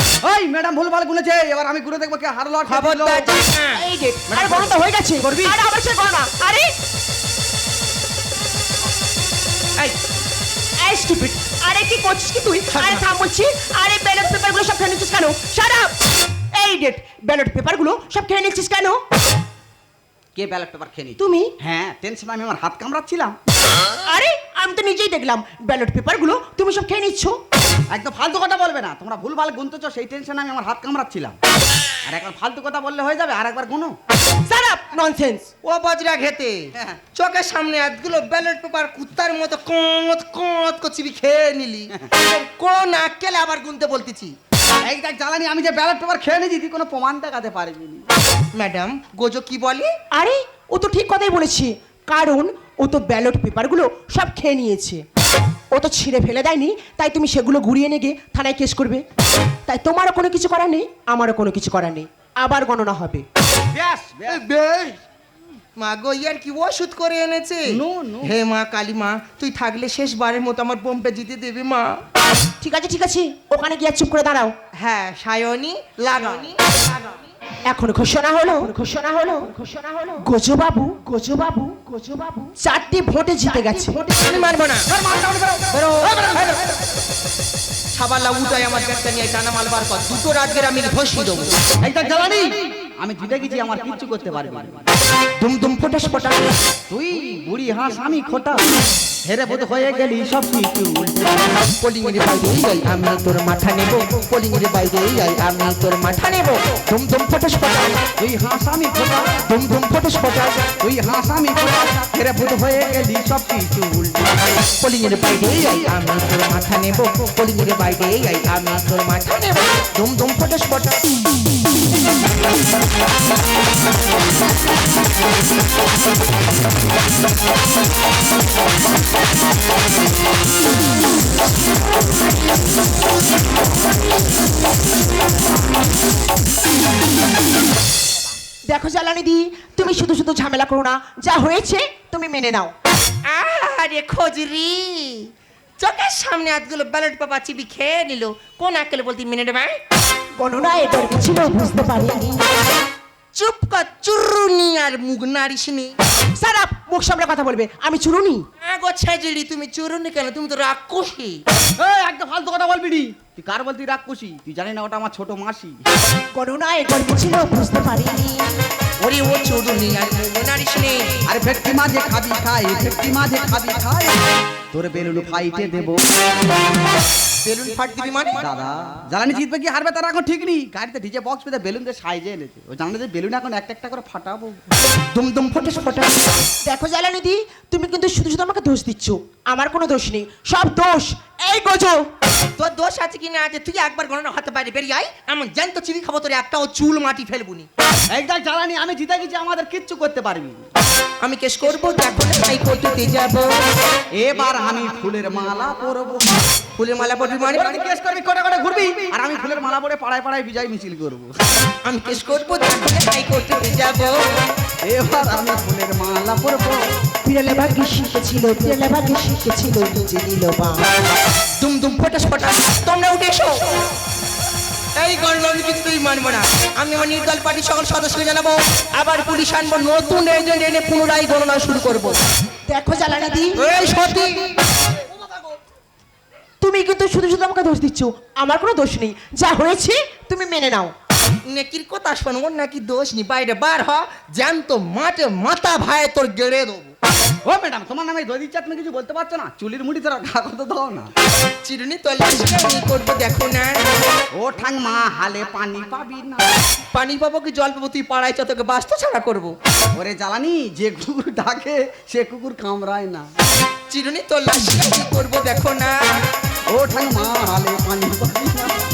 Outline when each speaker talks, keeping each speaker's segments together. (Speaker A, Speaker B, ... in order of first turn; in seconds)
Speaker A: 0.2-3.3, 4.3-4.8, 20.3-23.4, 27.9-31.4, 32.0-34.0, 44.8-48.1, 63.7-64.4, 67.7-68.4, 76.1-76.4, 84.9-86.6, 91.8-94.9, 96.9-98.6, 99.3-101.5, 108.2-109.4, 110.8-114.5, 161.8-165.8, 171.2-174.2, 174.7-176.0, 178.4-184.6, 198.1-200.7, 204.2-206.5, 207.4-211.3, 214.8-216.8, 247.4-251.1, 254.3-256.6, 259.9-263.3, 266.7-268.7
Speaker B: 2.6-3.8, 12.7-13.0, 35.6-36.6, 37.1-44.3, 48.5-49.9, 64.3-65.0, 65.8-72.0, 74.8-76.7, 83.9-84.9, 85.7-86.6, 87.9-91.5, 95.4-96.5, 101.8-108.0, 109.5-110.7, 114.8-121.0, 143.3-149.8, 153.3-155.9, 158.6-161.4, 169.0-171.1, 177.4-178.5, 185.1-186.1, 192.6-197.7, 201.2-203.5, 206.8-207.9, 211.8-214.2, 221.6-223.8, 224.9-232.2, 233.6-234.6, 241.5-246.9, 251.6-253.8, 256.9-259.5, 263.9-266.0
Speaker C: 3.7-6.7, 10.8-15.9, 16.5-19.0, 21.2-21.5, 24.1-27.4, 34.5-35.5, 50.1-55.0, 55.7-59.0, 59.7-63.2, 72.6-74.5, 77.7-84.0, 138.7-142.7, 150.4-152.4, 156.3-158.4, 166.3-168.4, 186.7-192.0, 217.2-220.8, 232.7-234.2, 236.6-240.9